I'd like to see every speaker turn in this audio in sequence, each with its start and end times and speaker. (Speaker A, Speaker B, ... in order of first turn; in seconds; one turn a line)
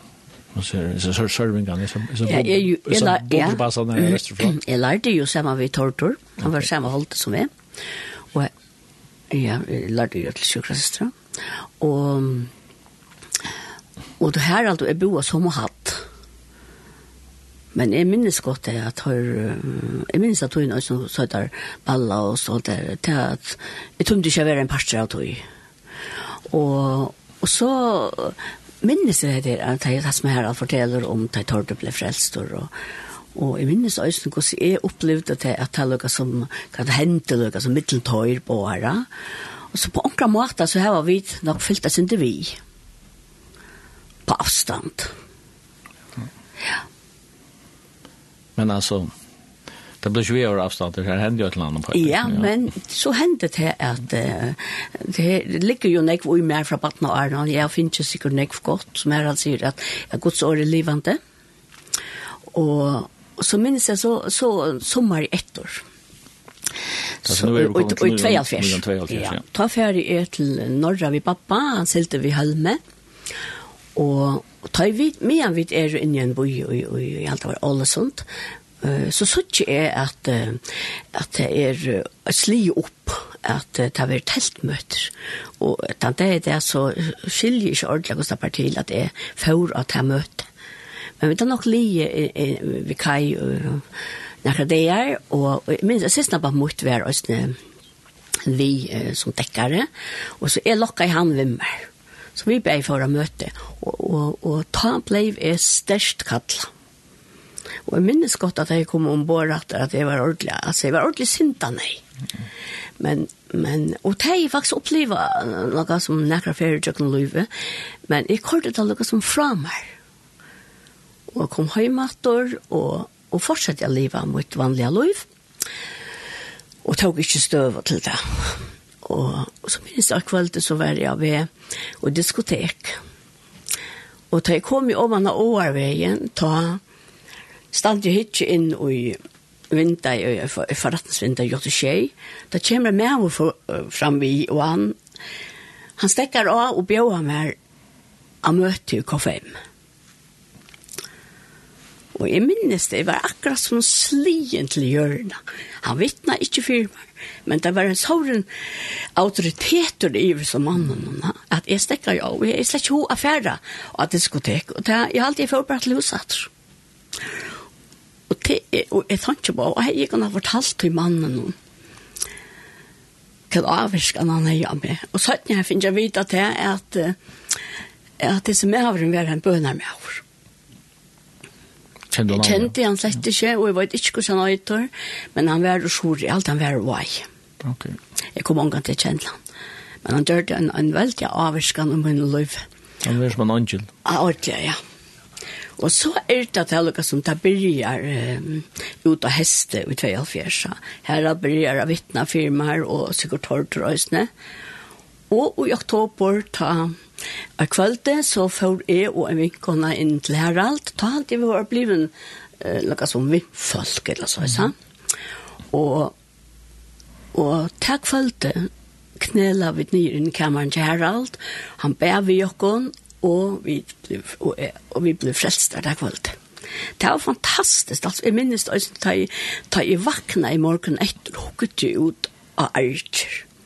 Speaker A: 0.5-4.6
Speaker B: 2.3-7.5
Speaker B: 9.3-11.1
Speaker B: 11.8-12.5
Speaker B: 14.2-16.1
Speaker B: 17.7-25.4
Speaker B: 26.5-32.7
Speaker B: 33.4-39.1
Speaker B: 39.7-42.6
Speaker B: 44.3-45.1
Speaker A: 48.6-49.1
Speaker A: 50.0-52.5
Speaker B: 51.9-61.2
Speaker B: 62.5-65.8
Speaker A: 67.2-69.4
Speaker B: 67.3-72.8
Speaker B: 74.0-78.2
Speaker B: 78.8-90.5
Speaker B: 91.2-93.8
Speaker B: 94.4-97.6
Speaker B: 98.5-99.9
Speaker B: 100.4-106.7
Speaker B: 107.9-112.0
Speaker B: 113.0-117.5
Speaker B: 118.1-119.9
Speaker B: 121.3-125.3
Speaker B: 126.8-131.5
Speaker B: 132.0-133.0
Speaker B: 134.3-136.8
Speaker B: 137.7-139.2
Speaker B: 139.7-145.0
Speaker B: 146.0-147.6
Speaker B: 148.4-149.6
Speaker B: 152.2-158.5
Speaker B: 159.2-166.5
Speaker B: 168.3-171.6
Speaker B: 173.5-177.2
Speaker B: 178.2-180.2
Speaker A: 182.1-182.7
Speaker B: 182.3-187.3
Speaker A: 187.6-188.0
Speaker B: 188.4-189.4
Speaker B: 190.0-192.6
Speaker A: 193.0-193.9
Speaker B: 194.1-194.8
Speaker B: 195.8-204.3
Speaker B: 205.3-207.0
Speaker B: 207.6-214.7
Speaker B: 215.7-216.1
Speaker B: 217.3-226.4
Speaker B: 227.0-233.4